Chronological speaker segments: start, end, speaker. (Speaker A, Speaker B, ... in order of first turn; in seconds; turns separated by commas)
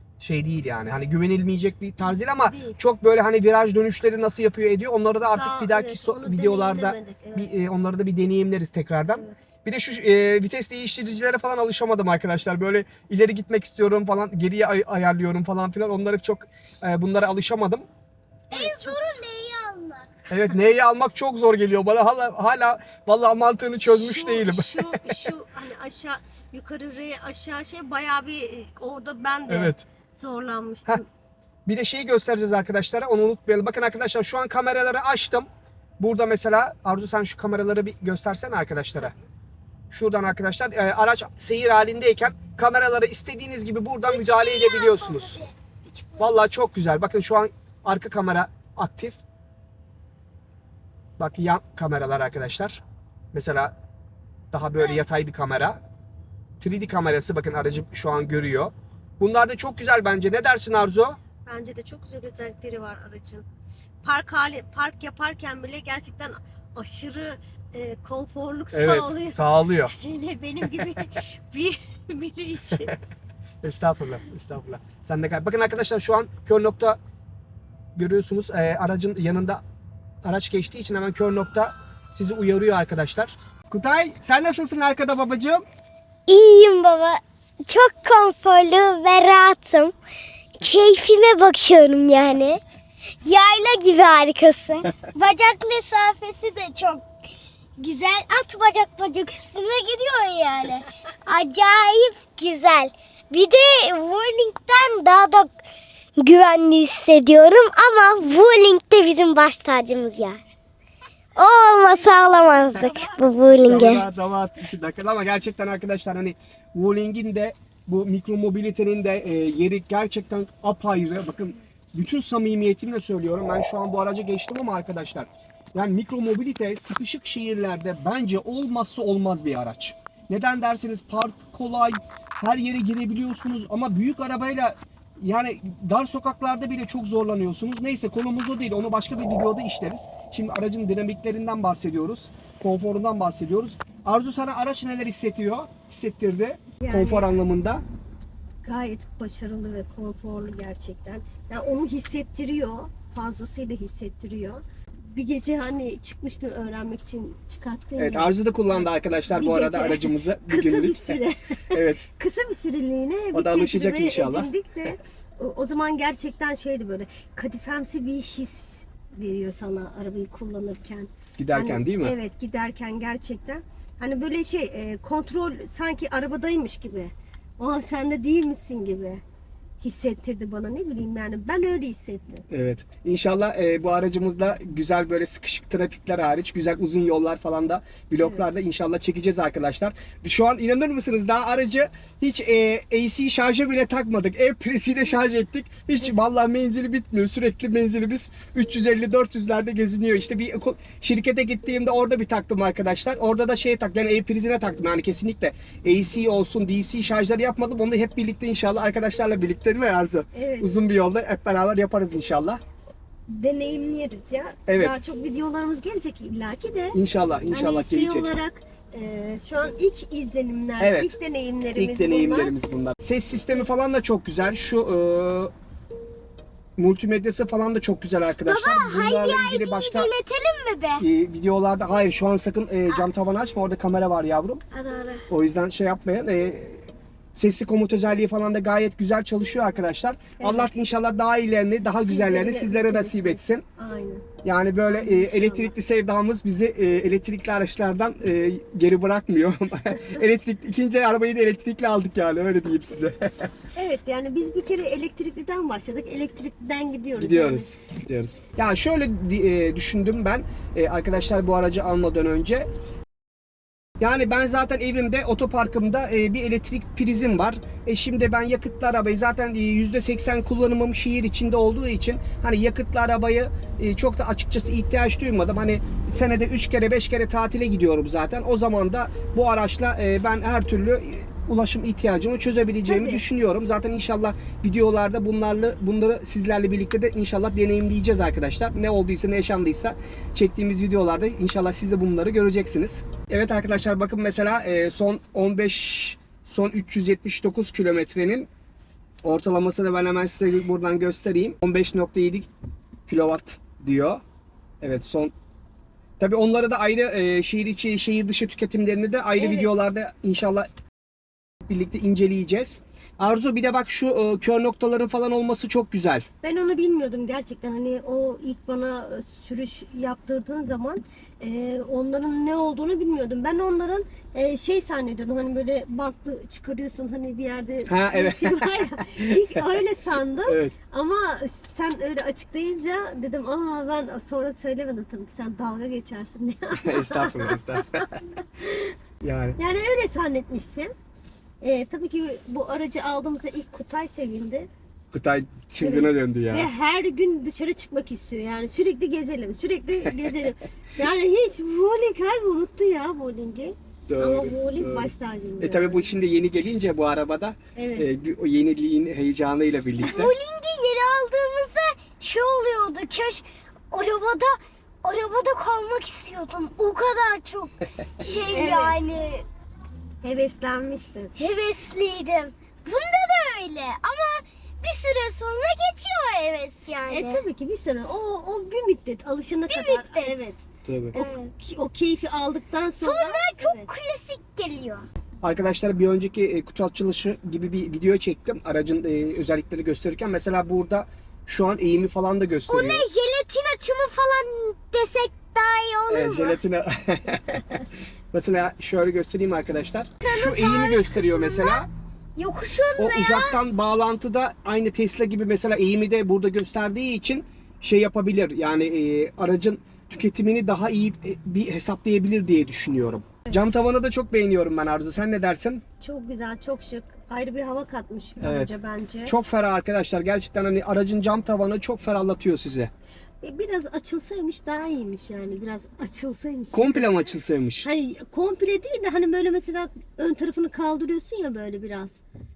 Speaker A: 0.2-17.9, Speaker B: 2.4-2.8, Speaker B: 5.3-7.5, Speaker B: 9.1-9.4, Speaker C: 18.5-20.1, Speaker B: 18.5-19.0, Speaker A: 20.3-25.2, Speaker B: 23.9-31.1, Speaker A: 29.5-29.8, Speaker A: 31.6-35.5, Speaker A: 36.0-39.1, Speaker A: 39.9-45.4, Speaker C: 44.1-46.3, Speaker A: 46.2-49.2, Speaker A: 51.2-52.8, Speaker A: 53.3-53.7, Speaker A: 54.5-55.8, Speaker A: 56.6-61.2, Speaker B: 61.4-63.5, Speaker B: 64.0-72.9, Speaker A: 68.7-69.9, Speaker A: 73.6-77.0, Speaker A: 78.0-79.6, Speaker A: 80.2-85.6, Speaker C: 86.3-89.9, Speaker C: 90.6-92.6, Speaker C: 93.2-97.0, Speaker C: 97.8-105.6, Speaker C: 106.2-110.4, Speaker C: 111.3-114.0, Speaker B: 111.8-113.3, Speaker A: 113.6-147.8, Speaker B: 146.8-147.3, Speaker B: 148.6-179.2, Speaker A: 158.0-161.2, Speaker A: 161.7-162.1, Speaker A: 163.3-164.5, Speaker A: 171.4-172.1, Speaker B: 179.8-182.4, Speaker A: 182.5-212.6, Speaker B: 210.3-210.9, Speaker B: 213.3-222.5, Speaker A: 214.7-215.0, Speaker A: 216.9-218.3, Speaker A: 220.8-221.1, Speaker A: 221.8-225.5, Speaker A: 226.8-230.1, Speaker C: 228.4-231.0, Speaker A: 231.0-234.6, Speaker C: 234.7-235.3, Speaker A: 235.3-243.6, Speaker B: 240.4-240.7, Speaker B: 242.0-244.3, Speaker A: 244.4-253.5, Speaker B: 244.9-245.7, Speaker B: 253.7-257.7, Speaker A: 257.2-262.7, Speaker A: 264.0-298.5, Speaker B: 282.9-283.2, Speaker A: 299.2-302.5, Speaker A: 303.1-304.2, Speaker A: 304.8-305.3, Speaker A: 306.2-310.7, Speaker B: 309.4-309.7, Speaker A: 311.6-316.2, Speaker B: 316.4-338.9, Speaker A: 327.9-329.7, Speaker A: 330.4-330.7, Speaker A: 336.8-338.2, Speaker A: 339.2-339.6, Speaker B: 339.6-340.9, Speaker B: 341.6-344.7, Speaker A: 345.1-346.7, Speaker B: 345.8-356.1, Speaker A: 354.1-360.3, Speaker B: 357.7-358.1, Speaker C: 360.0-369.4, Speaker B: 368.2-369.0, Speaker B: 370.2-371.3, Speaker C: 371.4-377.4, Speaker B: 377.1-380.6, Speaker C: 379.7-380.5, Speaker A: 380.8-381.2, Speaker B: 381.1-383.9, Speaker C: 381.1-381.5, Speaker C: 383.0-385.1, Speaker A: 385.4-393.0, Speaker C: 392.7-396.6, Speaker A: 396.1-401.9, Speaker C: 400.2-403.6, Speaker A: 403.0-415.8, Speaker B: 416.0-419.4, Speaker A: 418.4-422.9, Speaker B: 423.4-427.1, Speaker A: 426.7-427.9, Speaker B: 427.8-432.2